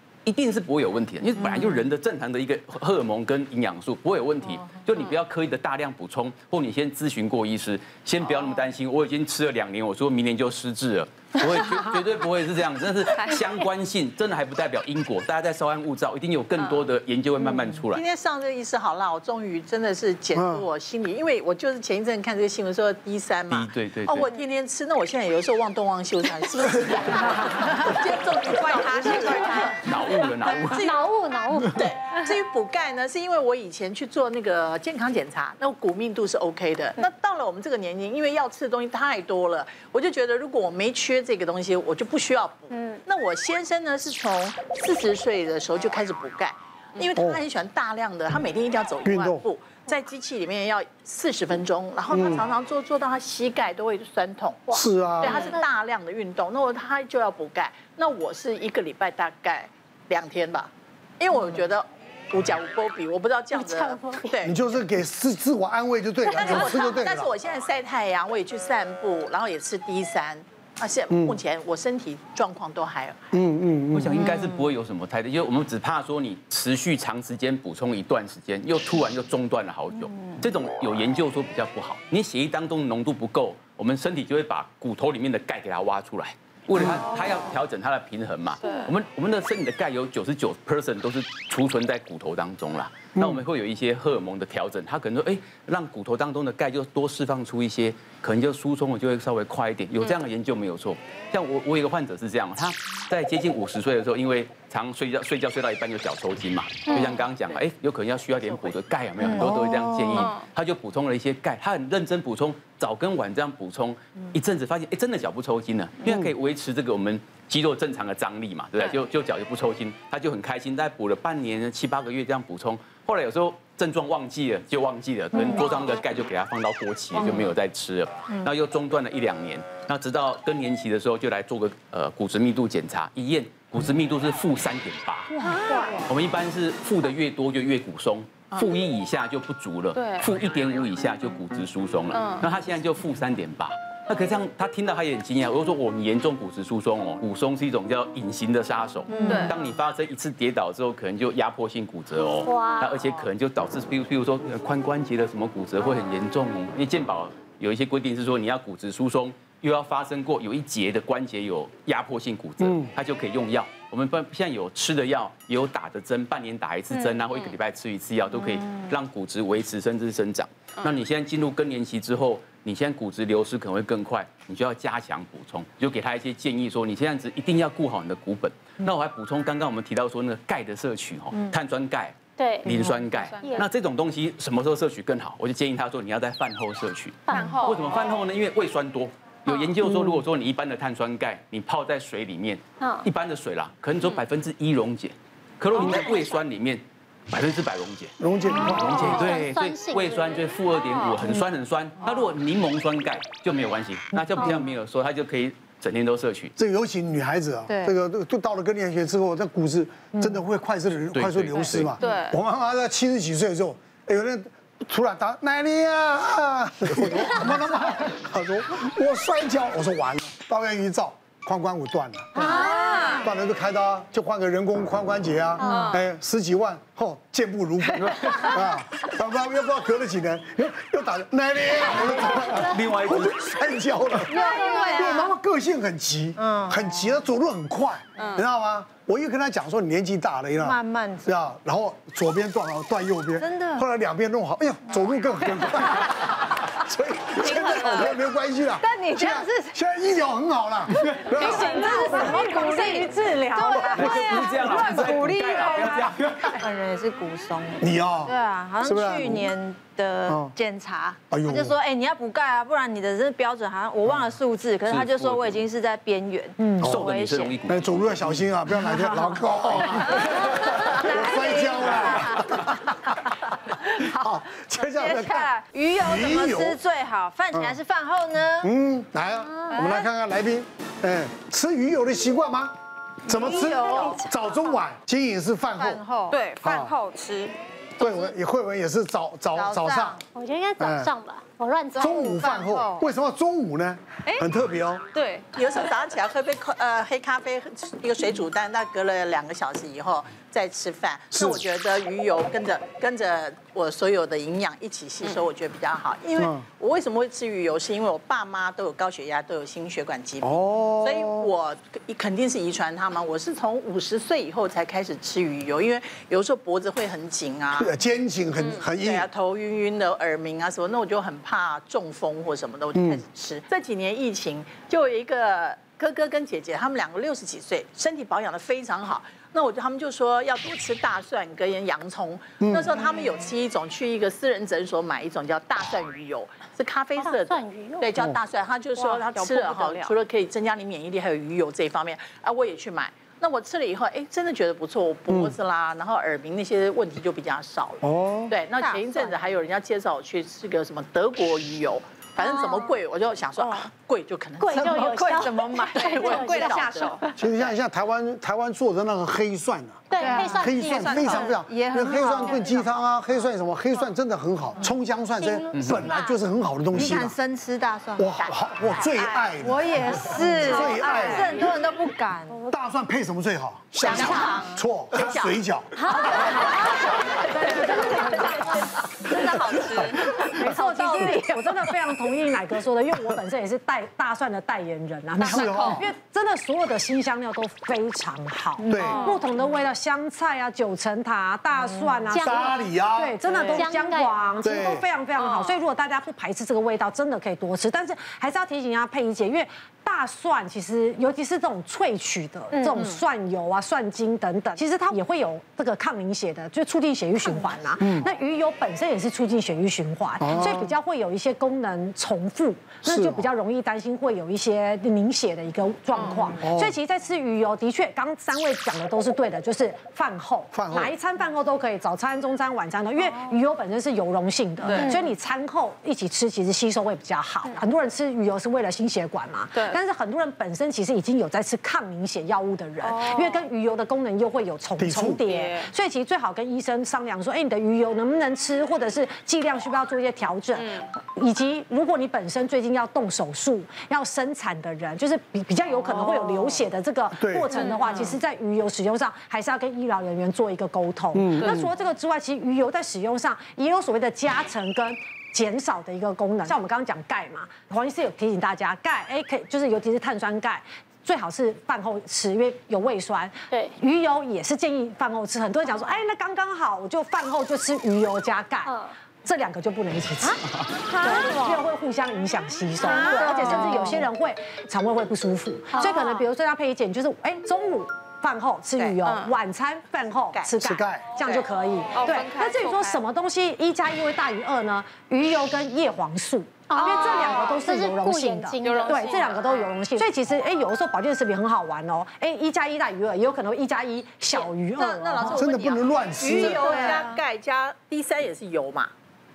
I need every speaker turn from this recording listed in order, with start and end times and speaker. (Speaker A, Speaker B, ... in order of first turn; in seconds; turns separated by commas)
Speaker A: 0.2-18.0, Speaker B: 17.9-29.8, Speaker C: 20.4-20.6, Speaker A: 23.5-24.2, Speaker D: 28.5-29.6, Speaker A: 29.7-30.9, Speaker B: 30.5-31.0, Speaker E: 30.7-31.9, Speaker B: 31.6-64.5, Speaker E: 42.7-43.0, Speaker C: 49.0-49.4, Speaker C: 52.1-52.4, Speaker E: 54.7-55.6, Speaker C: 54.7-55.4, Speaker E: 63.5-64.4, Speaker C: 64.4-67.3, Speaker B: 66.2-73.3, Speaker C: 71.1-71.4, Speaker C: 73.3-74.3, Speaker A: 73.9-135.3, Speaker C: 93.2-93.4, Speaker F: 109.2-110.1, Speaker C: 109.3-110.3, Speaker B: 135.7-136.0, Speaker A: 136.0-206.5, Speaker G: 140.0-140.3, Speaker F: 149.1-149.5, Speaker G: 149.2-149.5, Speaker E: 152.4-153.0, Speaker C: 162.6-162.9, Speaker E: 182.4-182.8, Speaker E: 187.3-187.8, Speaker G: 187.4-187.7, Speaker E: 192.8-193.1, Speaker E: 195.9-196.3, Speaker C: 198.2-199.4, Speaker E: 198.7-200.5, Speaker F: 200.9-201.2, Speaker C: 206.6-252.4, Speaker A: 211.1-212.0, Speaker G: 212.0-212.3, Speaker E: 222.4-223.2, Speaker F: 222.8-223.2, Speaker E: 225.6-226.0, Speaker A: 228.0-228.7, Speaker A: 232.5-233.7, Speaker F: 234.2-235.3, Speaker E: 234.6-234.9, Speaker F: 236.4-237.0, Speaker F: 240.6-241.3, Speaker F: 243.3-243.8, Speaker G: 247.4-248.0, Speaker F: 247.6-248.0, Speaker F: 248.8-249.8, Speaker D: 251.3-254.1, Speaker F: 251.3-267.6, Speaker C: 253.8-254.2, Speaker A: 253.9-256.6, Speaker C: 257.8-259.5, Speaker C: 260.3-260.5, Speaker C: 261.3-261.8, Speaker A: 264.9-265.6, Speaker D: 266.6-266.9, Speaker C: 266.8-267.1, Speaker A: 266.8-268.4, Speaker C: 267.7-272.9, Speaker F: 269.2-272.6, Speaker C: 273.9-276.8, Speaker F: 274.0-278.7, Speaker C: 277.5-277.8, Speaker C: 278.6-282.7, Speaker F: 279.7-280.1, Speaker C: 283.2-286.0, Speaker F: 283.3-284.4, Speaker E: 283.6-284.3, Speaker F: 285.8-288.2, Speaker G: 286.3-286.6, Speaker C: 286.6-286.9, Speaker C: 288.0-290.2, Speaker F: 289.5-290.2, Speaker E: 290.3-292.5, Speaker C: 290.8-291.1, Speaker C: 292.0-295.0, Speaker F: 292.0-293.0, Speaker G: 295.1-295.4, Speaker B: 295.5-317.9, Speaker C: 301.3-301.6, Speaker C: 306.4-306.6, Speaker C: 310.4-311.5, Speaker C: 317.7-319.3, Speaker B: 318.9-357.2, Speaker C: 322.9-323.2, Speaker C: 332.6-332.9, Speaker E: 337.1-338.1, Speaker G: 339.0-340.1, Speaker C: 345.3-345.6, Speaker C: 348.0-348.5, Speaker F: 348.8-349.3, Speaker E: 352.4-352.9, Speaker F: 353.6-353.9, Speaker E: 354.6-357.3, Speaker F: 355.0-357.2, Speaker C: 357.4-367.4, Speaker E: 360.1-361.5, Speaker F: 360.2-362.8, Speaker E: 362.2-362.6, Speaker E: 365.4-366.4, Speaker A: 365.7-366.0, Speaker F: 366.9-368.3, Speaker C: 368.1-371.6, Speaker B: 368.4-369.4, Speaker F: 369.0-372.6, Speaker C: 372.7-376.5, Speaker B: 374.0-375.6, Speaker F: 374.0-374.7, Speaker F: 376.0-381.9, Speaker D: 376.1-378.5, Speaker D: 380.4-495.6, Speaker C: 385.4-386.1, Speaker G: 385.4-385.9, Speaker F: 388.8-389.2, Speaker C: 388.9-389.3, Speaker G: 389.0-389.4, Speaker F: 391.9-392.3, Speaker E: 392.3-392.8, Speaker C: 392.3-393.4, Speaker F: 393.5-393.9, Speaker E: 393.7-394.4, Speaker C: 394.6-395.0, Speaker C: 408.0-408.3, Speaker C: 410.4-410.9, Speaker C: 413.0-413.5, Speaker C: 416.6-416.9, Speaker C: 420.7-421.1, Speaker G: 424.8-425.1, Speaker G: 433.0-433.6, Speaker C: 435.0-435.4, Speaker G: 435.5-435.9, Speaker G: 440.8-441.0, Speaker G: 446.1-446.4, Speaker C: 447.4-447.7, Speaker G: 447.8-448.4, Speaker C: 451.3-451.9, Speaker E: 463.7-463.9, Speaker F: 471.1-471.8, Speaker E: 471.2-471.6, Speaker F: 473.0-474.2, Speaker E: 473.2-473.5, Speaker G: 479.2-479.5, Speaker C: 480.8-481.3, Speaker G: 482.1-483.2, Speaker E: 486.9-489.4, Speaker G: 487.0-487.3, Speaker G: 488.8-489.9, Speaker B: 494.5-499.1, Speaker C: 495.5-496.9, Speaker D: 496.5-497.3